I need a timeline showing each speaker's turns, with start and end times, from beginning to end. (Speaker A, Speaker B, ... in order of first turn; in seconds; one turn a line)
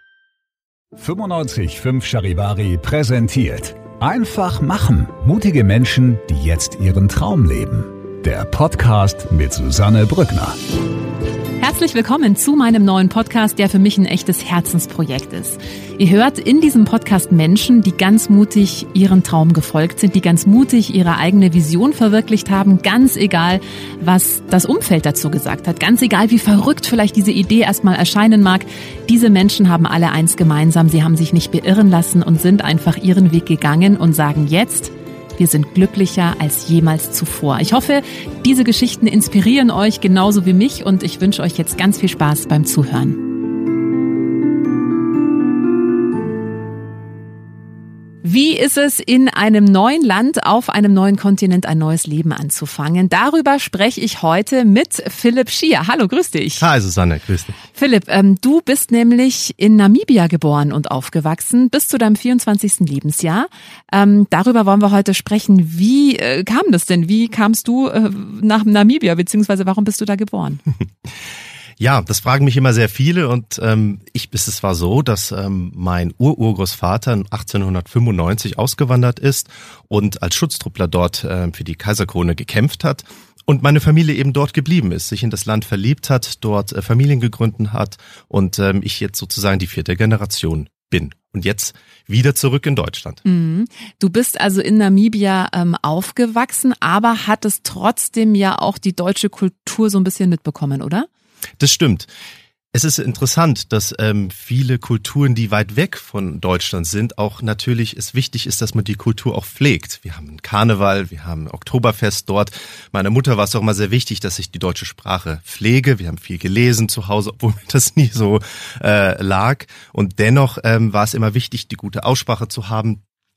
Speaker A: 1.0-10.6
Speaker B: 11.6-43.2
Speaker B: 48.2-56.7
Speaker C: 56.6-57.6
Speaker B: 57.8-70.6
Speaker C: 71.8-93.2
Speaker B: 93.2-101.1
Speaker C: 101.6-102.1
Speaker C: 102.7-123.0